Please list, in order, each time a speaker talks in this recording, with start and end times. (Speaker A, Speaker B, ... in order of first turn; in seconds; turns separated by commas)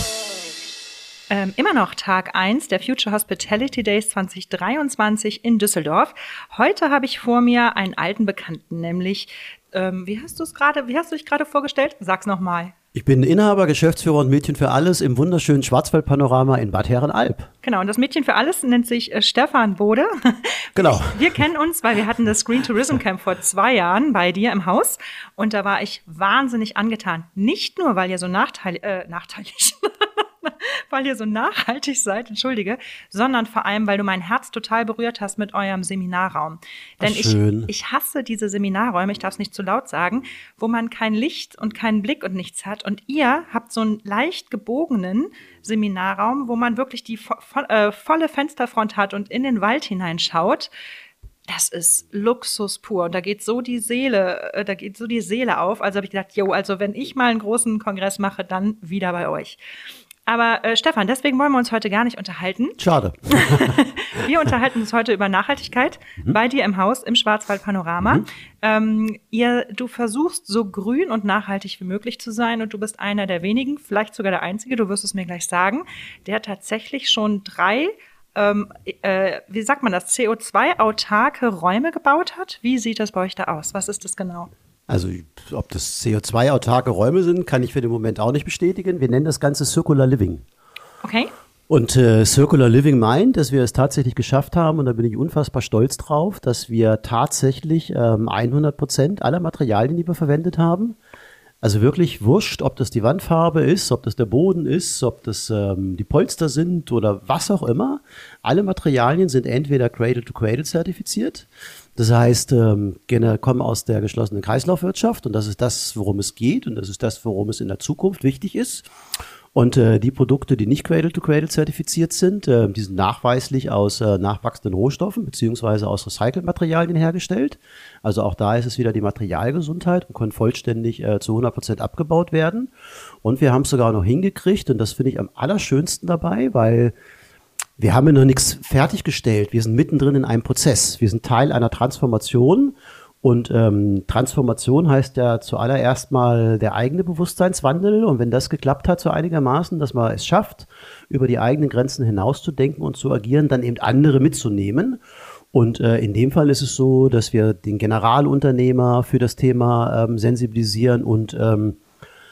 Speaker A: 1.3-12.7, Speaker B: 12.9-17.5, Speaker A: 17.6-50.7, Speaker B: 20.8-21.4, Speaker B: 37.0-37.7, Speaker A: 51.5-59.6, Speaker A: 60.3-84.5, Speaker B: 62.8-64.5, Speaker B: 84.9-90.5, Speaker A: 91.0-91.3, Speaker B: 91.7-101.0, Speaker B: 101.6-118.9, Speaker B: 119.5-132.7, Speaker B: 133.2-136.9, Speaker B: 137.8-155.0, Speaker B: 155.5-161.8